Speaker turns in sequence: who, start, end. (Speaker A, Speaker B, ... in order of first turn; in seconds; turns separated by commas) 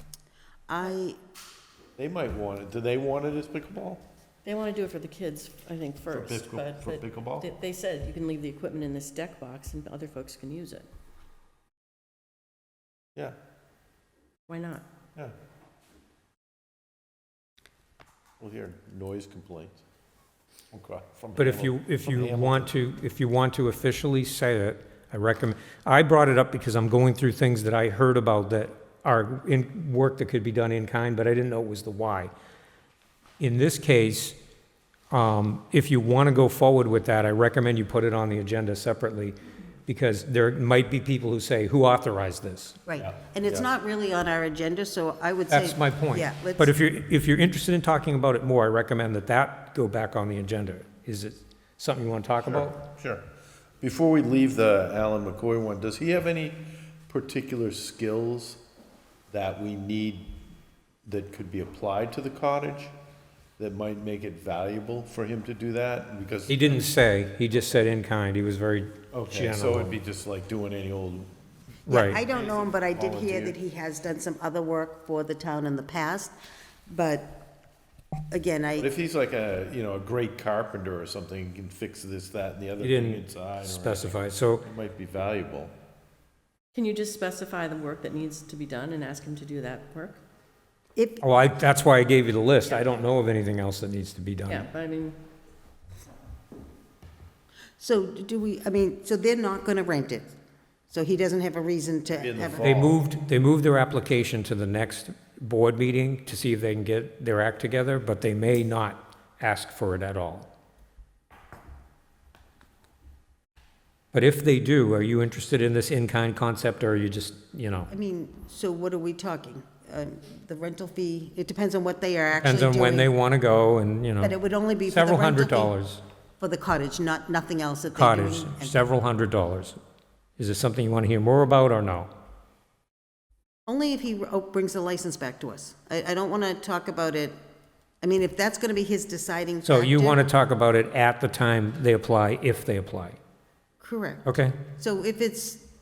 Speaker A: 0.7-1.2, Speaker B: 2.0-4.0, Speaker C: 4.5-10.9, Speaker B: 6.1-7.5, Speaker C: 14.5-14.8, Speaker B: 18.4-19.8, Speaker B: 20.7-22.7, Speaker D: 21.4-32.3, Speaker D: 33.4-34.4, Speaker D: 35.1-42.8, Speaker A: 42.9-46.7, Speaker B: 43.0-43.7, Speaker D: 45.5-52.8, Speaker B: 52.4-53.2, Speaker B: 53.8-58.6, Speaker B: 59.3-60.3, Speaker B: 61.1-62.9, Speaker B: 63.6-66.8, Speaker D: 66.5-70.0, Speaker B: 69.1-71.3, Speaker D: 71.9-72.2, Speaker A: 71.9-76.3, Speaker B: 72.1-73.5, Speaker A: 76.9-77.3, Speaker A: 78.3-78.9, Speaker B: 78.8-85.7, Speaker D: 82.8-84.7, Speaker C: 86.7-90.2, Speaker A: 91.0-91.2, Speaker D: 91.2-94.7, Speaker C: 94.5-95.2, Speaker A: 97.8-100.3, Speaker A: 100.9-102.6, Speaker B: 102.2-103.0, Speaker D: 102.6-110.5, Speaker D: 114.1-117.9, Speaker A: 117.9-123.1, Speaker D: 122.4-124.3, Speaker A: 124.2-125.7, Speaker D: 124.9-126.0, Speaker A: 126.4-128.8, Speaker D: 128.0-129.8, Speaker D: 130.4-132.1, Speaker A: 133.7-137.4, Speaker A: 138.0-140.2, Speaker D: 139.6-143.2, Speaker A: 143.8-144.3, Speaker D: 144.3-144.6, Speaker A: 144.8-145.6